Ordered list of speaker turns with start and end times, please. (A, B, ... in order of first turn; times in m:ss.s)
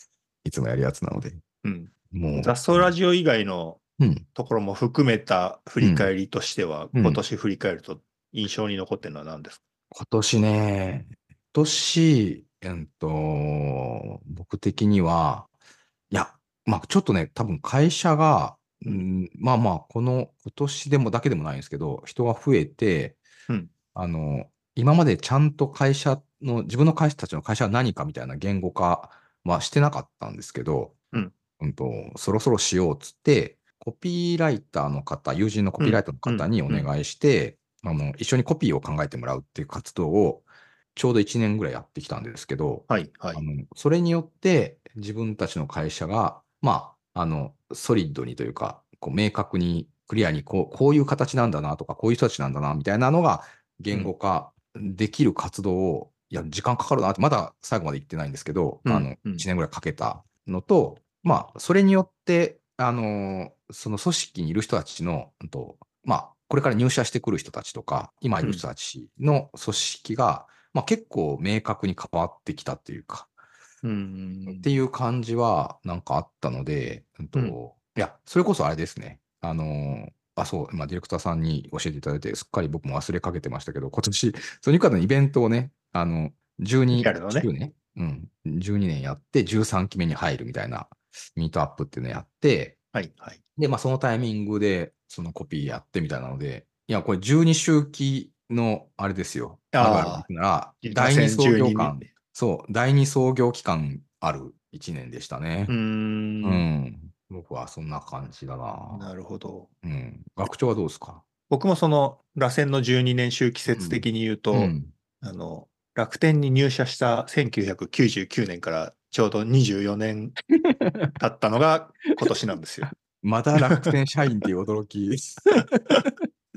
0:00.4-0:01.4 A
0:01.6-0:03.8 B
0:02.1-0:02.9 A
0:04.0-0:04.2 A
0:04.3-0:09.6 B
0:05.8-0:06.1 A
0:06.9-0:07.2 A
0:09.9-0:15.5 A
0:16.1-0:23.2 A
0:23.9-1:13.3 A
0:35.8-0:36.9 B
0:42.9-0:43.4 B
0:58.8-0:59.4 B
1:13.8-1:14.7 B
1:14.5-1:32.8 A
1:26.9-1:27.5 B
1:32.9-1:33.4 B
1:33.6-1:45.7 A
1:39.7-1:40.3 B
1:40.8-1:42.0 B
1:45.7-1:46.6 B
1:46.4-1:49.1 A
1:48.9-1:49.7 B
1:49.8-1:51.2 A
1:51.5-2:00.4 B
1:53.7-1:54.9 A
2:00.5-2:01.2 A
2:01.2-2:02.9 B
2:03.2-2:06.1 A